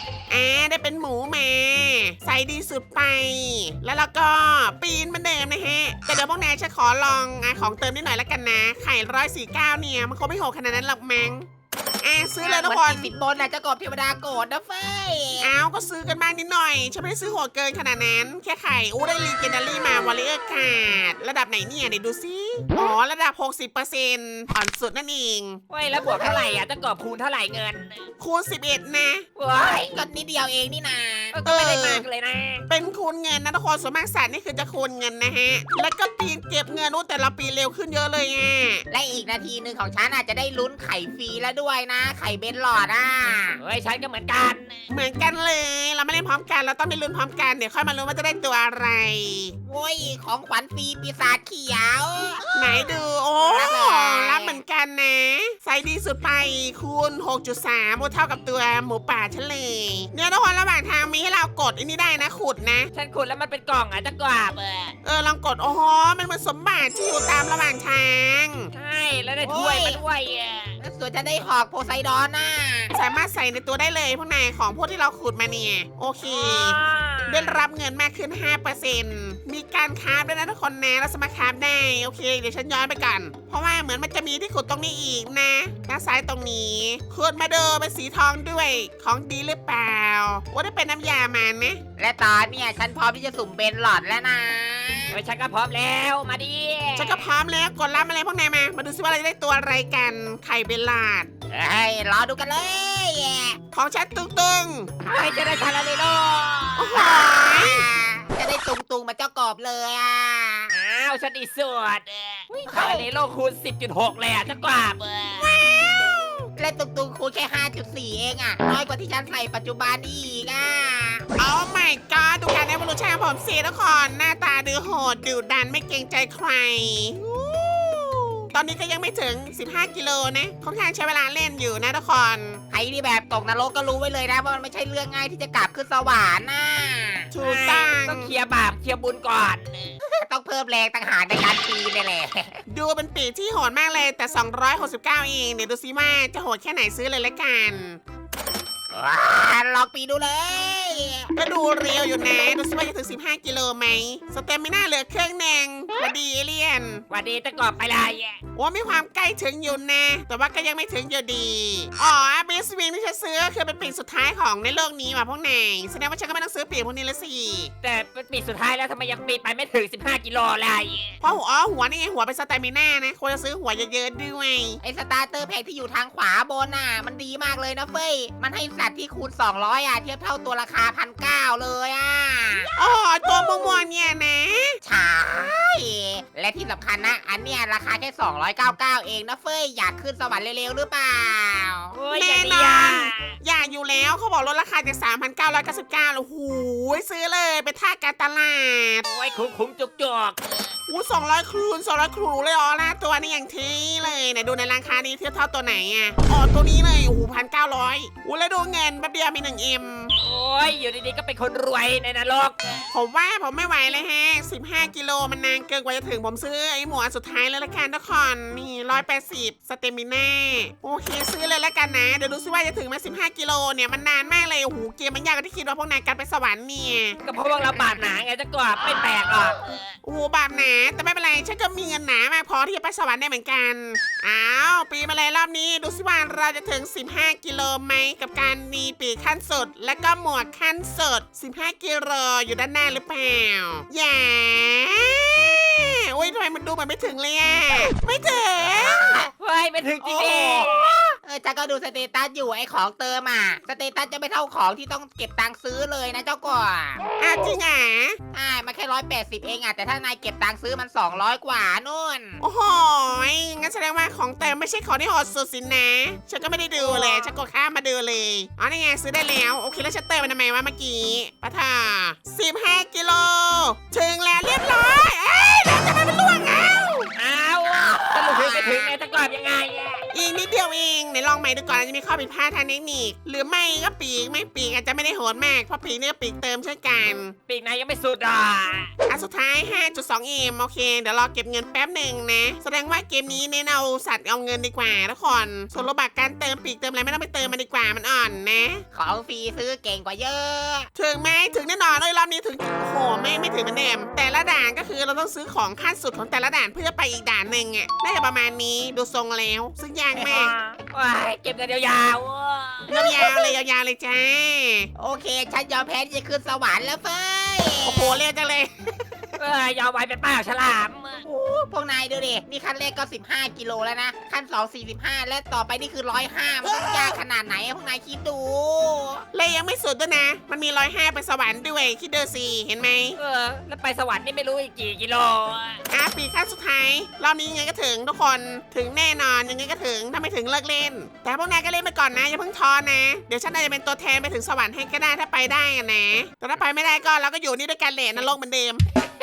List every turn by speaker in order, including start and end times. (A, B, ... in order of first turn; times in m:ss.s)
0:00.3-0:11.5 A
0:12.0-0:13.1 A
0:12.4-0:15.5 B
0:15.4-0:25.6 A
0:25.7-0:28.0 C
0:26.0-0:26.6 B
0:28.2-0:29.3 A
0:29.4-0:30.0 C
0:29.6-0:31.4 B
0:31.3-0:32.6 C
0:31.5-0:32.0 A
0:32.7-0:38.8 A
0:38.9-0:43.6 B
0:43.6-0:44.8 C
0:44.9-0:49.6 A
0:49.7-0:52.9 B
0:52.6-1:02.9 A
0:53.4-0:54.6 B
1:02.9-1:05.0 C
1:05.0-1:08.7 A
1:08.7-1:10.8 C
1:09.4-1:10.0 B
1:10.8-1:12.9 B
1:12.9-1:31.8 A
1:16.2-1:17.6 C
1:32.0-1:35.2 B
1:35.1-1:37.3 C
1:37.0-1:41.3 A
1:41.5-1:43.6 B
1:43.7-1:44.9 A
1:45.0-1:47.0 C
1:46.8-1:47.8 A
1:47.0-1:50.7 B
1:50.7-1:55.5 C
1:52.7-1:53.1 B
1:55.4-1:56.5 A
1:56.6-2:01.3 B
2:01.4-2:07.5 A
2:08.5-2:12.6 A
2:12.7-2:17.3 B
2:17.3-2:18.3 A
2:17.4-2:20.0 C
2:20.0-2:22.6 B
2:22.7-2:28.0 A
2:28.9-2:31.3 B
2:31.4-2:37.0 A
2:37.1-2:38.4 C
2:38.6-2:47.7 A
2:47.8-2:51.2 C
2:51.2-2:54.8 A
2:54.8-3:02.7 B
3:02.8-3:04.8 A
3:04.8-3:12.0 B
3:11.9-3:13.3 C
3:12.1-3:19.1 A
3:19.1-3:20.7 C
3:20.9-3:30.1 A
3:30.2-3:32.9 C
3:32.9-3:47.2 A
3:47.2-3:49.8 C
3:50.0-4:09.2 A
4:08.8-4:09.3 B
4:09.4-4:11.0 C
4:10.0-4:17.0 B
4:17.2-4:18.2 A
4:18.3-4:22.4 B
4:22.4-4:37.1 A
4:37.2-4:40.1 C
4:37.6-4:38.9 B
4:40.1-4:47.4 A
4:47.5-4:48.9 C
4:49.1-4:58.8 A
4:58.9-5:00.9 B
5:01.0-5:10.5 A
5:10.2-5:12.9 C
5:12.9-5:14.9 A
5:13.0-5:13.6 B
5:15.0-5:18.2 B
5:17.8-5:18.9 A
5:19.4-5:21.2 C
5:21.2-5:29.2 B
5:29.3-5:33.2 A
5:33.2-5:35.8 C
5:35.9-5:48.8 A